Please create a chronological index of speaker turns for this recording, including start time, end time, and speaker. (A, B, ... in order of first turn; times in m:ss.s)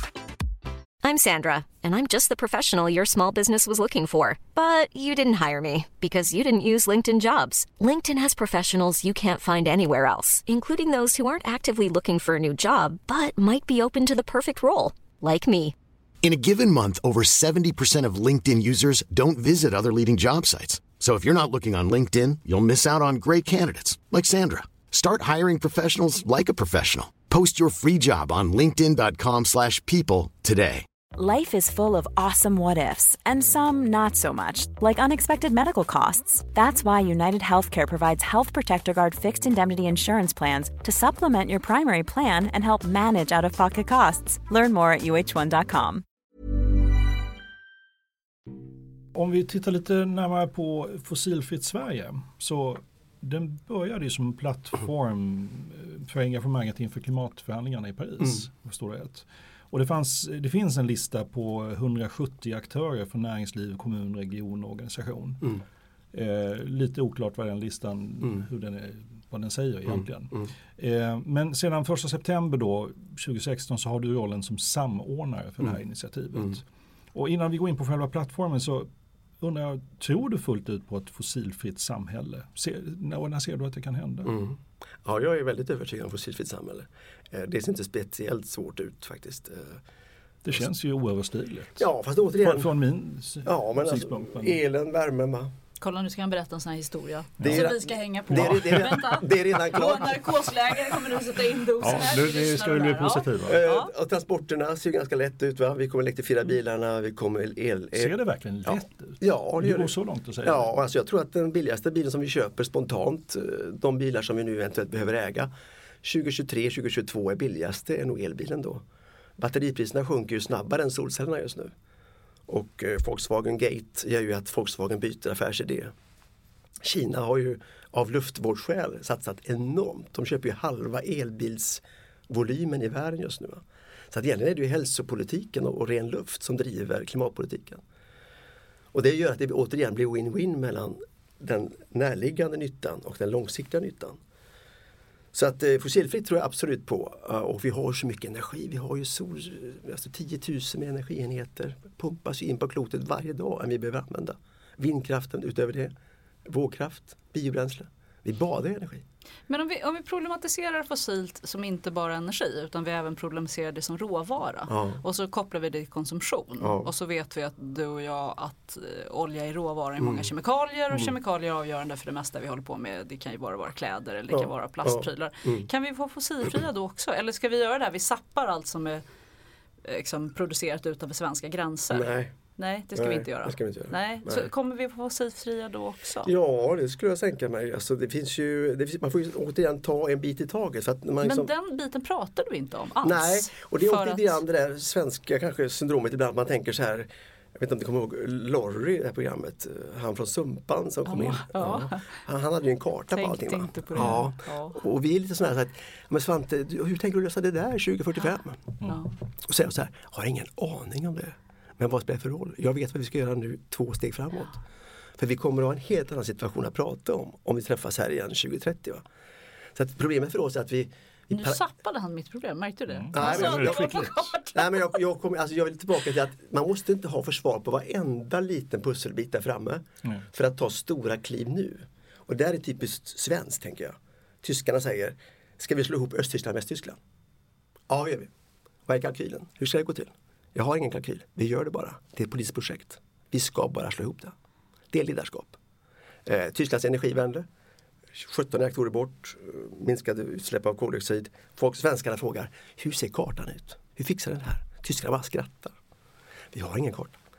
0:01.0-0:15.8 A
0:16.2-0:30.8 B
0:31.2-0:46.0 C
0:49.1-1:05.6 D
1:06.1-1:16.6 D
1:09.9-1:10.5 E
1:17.1-1:18.9 D
1:19.4-1:24.4 D
1:24.2-1:29.8 E
1:30.4-1:31.8 D
1:31.8-1:32.7 E
1:32.4-1:34.6 D
1:33.4-1:35.5 E
1:35.8-1:43.9 F
1:37.4-1:37.7 D
1:37.4-1:40.4 E
1:38.3-1:39.0 D
1:41.8-1:43.6 D
1:43.4-1:48.1 E
1:48.0-1:50.6 D
1:48.6-1:55.5 E
1:56.0-1:58.8 E
1:59.4-2:01.7 E
2:02.5-2:05.9 E
2:06.8-2:17.8 E
2:18.9-2:24.2 E
2:25.3-2:35.9 E
2:36.4-2:39.0 E
2:39.5-2:59.0 F
2:44.7-2:45.0 E
2:46.6-2:46.9 E
2:50.0-2:50.3 E
2:54.3-2:55.7 E
2:59.8-3:06.3 F
3:01.9-3:02.3 E
3:03.0-3:04.5 E
3:06.2-3:11.5 E
3:11.2-3:14.4 F
3:13.0-3:28.7 E
3:21.1-3:22.1 F
3:23.1-3:24.8 F
3:24.0-3:24.2 D
3:28.8-3:29.1 F
3:29.4-3:34.6 E
3:35.2-3:39.0 E
3:39.7-3:41.6 E
3:41.3-3:44.9 F
3:42.9-3:44.2 D
3:43.1-3:57.0 E
3:57.9-3:58.3 E
3:58.9-4:04.3 E
4:04.9-4:05.6 E
4:06.3-4:07.4 E
4:08.1-4:15.7 E
4:16.5-4:17.2 E